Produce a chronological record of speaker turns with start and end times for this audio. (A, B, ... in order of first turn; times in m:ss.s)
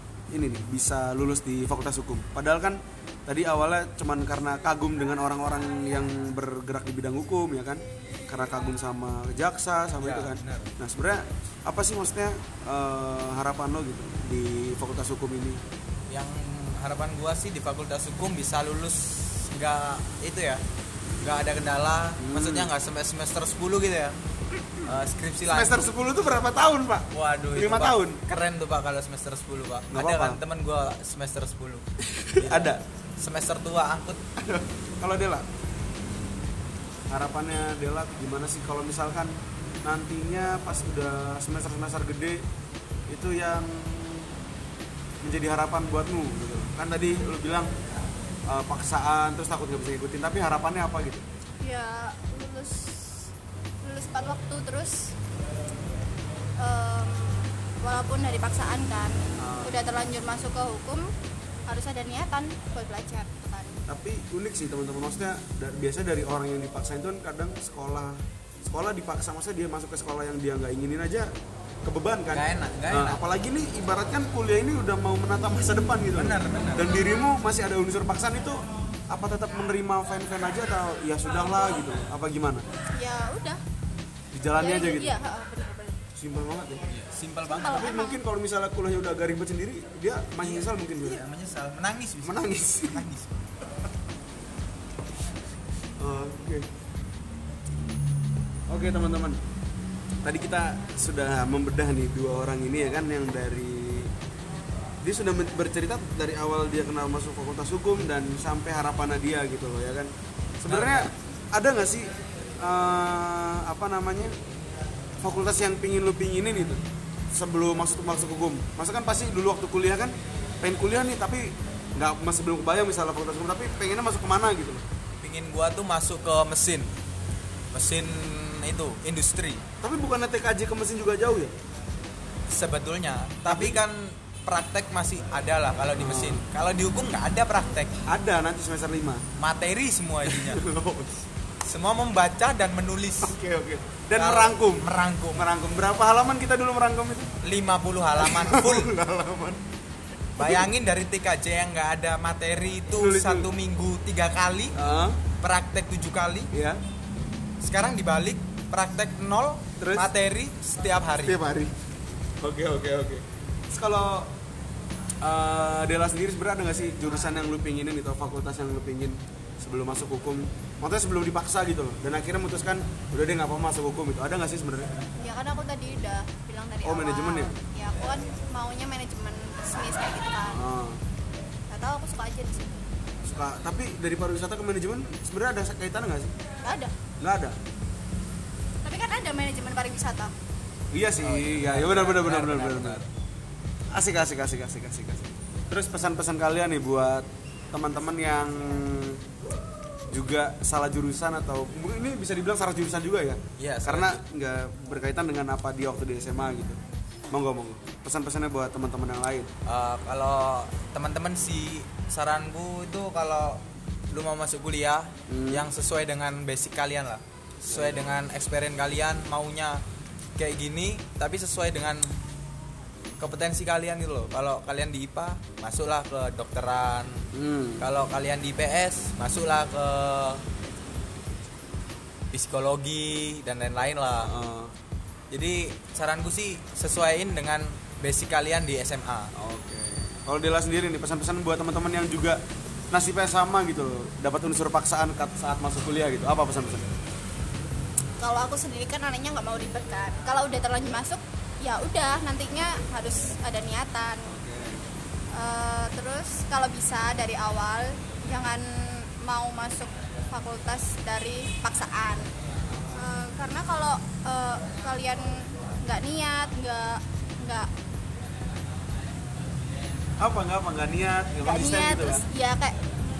0:00.3-0:15.6 A
0:10.0-0:10.7 B
0:16.1-0:20.6 B
0:21.2-0:24.2 B
0:22.2-0:22.7 A
0:24.8-0:25.8 B
0:25.5-0:28.2 A
0:27.1-0:34.2 B
0:29.9-0:30.4 A
0:32.1-0:32.8 A
0:34.4-0:35.4 A
0:37.1-0:42.4 A
0:43.1-0:44.3 A
0:45.2-0:47.7 A
0:48.5-0:51.2 A
0:51.6-0:53.3 C
0:53.8-0:55.1 C
0:56.6-1:01.1 C
0:59.4-0:59.8 A
1:01.6-1:03.8 C
1:03.9-1:11.3 A
1:11.8-1:22.6 A
1:12.3-1:13.2 B
1:16.1-1:16.9 B
1:22.9-1:23.6 C
1:24.3-1:25.1 A
1:24.6-1:26.0 C
1:26.2-1:26.9 A
1:26.9-1:27.8 B
1:27.6-1:31.2 A
1:27.6-1:28.2 C
1:30.4-1:33.6 B
1:32.2-1:33.1 A
1:36.0-1:36.7 A
1:38.7-1:39.4 A
1:40.2-1:44.1 A
1:45.0-1:52.1 A
1:50.6-1:51.1 B
1:52.6-1:54.3 A
1:55.2-2:04.8 A
2:05.2-2:06.9 B
2:07.7-2:09.6 B
2:09.8-2:11.5 A
2:12.5-2:18.0 B
2:13.4-2:13.8 A
2:15.9-2:16.4 A
2:18.0-2:19.2 A
2:19.4-2:20.6 B
2:20.2-2:21.2 A
2:21.6-2:23.4 B
2:23.2-2:27.3 A
2:24.1-2:25.5 B
2:27.4-2:28.9 B
2:28.2-2:29.6 A
2:30.4-2:34.8 B
2:30.4-2:30.7 A
2:32.9-2:33.5 A
2:34.8-2:35.2 A
2:35.4-2:36.5 B
2:36.5-2:36.8 A
2:37.6-2:41.4 B
2:39.8-2:40.1 A
2:41.2-2:41.7 A
2:42.4-2:44.3 A
2:45.2-2:54.9 A
2:55.2-3:00.7 C
2:56.8-2:57.6 A
3:00.5-3:01.0 A
3:01.7-3:02.8 C
3:03.2-3:06.3 A
3:06.6-3:06.9 C
3:07.2-3:07.6 A
3:08.8-3:10.3 C
3:10.9-3:13.0 A
3:11.2-3:13.1 B
3:13.9-3:19.2 A
3:20.1-3:26.8 A
3:23.6-3:24.2 B
3:27.3-3:29.5 A
3:29.6-3:39.8 B
3:35.3-3:35.7 A
3:37.7-3:38.0 A
3:40.4-3:42.1 B
3:43.2-3:47.2 B
3:47.3-3:47.9 A
3:47.8-3:50.4 B
3:52.3-3:54.3 B
3:54.2-3:54.7 A
3:55.3-3:59.3 B
3:59.4-4:02.4 A
4:02.9-4:06.9 A
4:08.2-4:14.3 C
4:14.3-4:14.9 A
4:15.3-4:22.3 C
4:22.9-4:27.7 C
4:30.2-4:32.2 A
4:31.4-4:32.8 C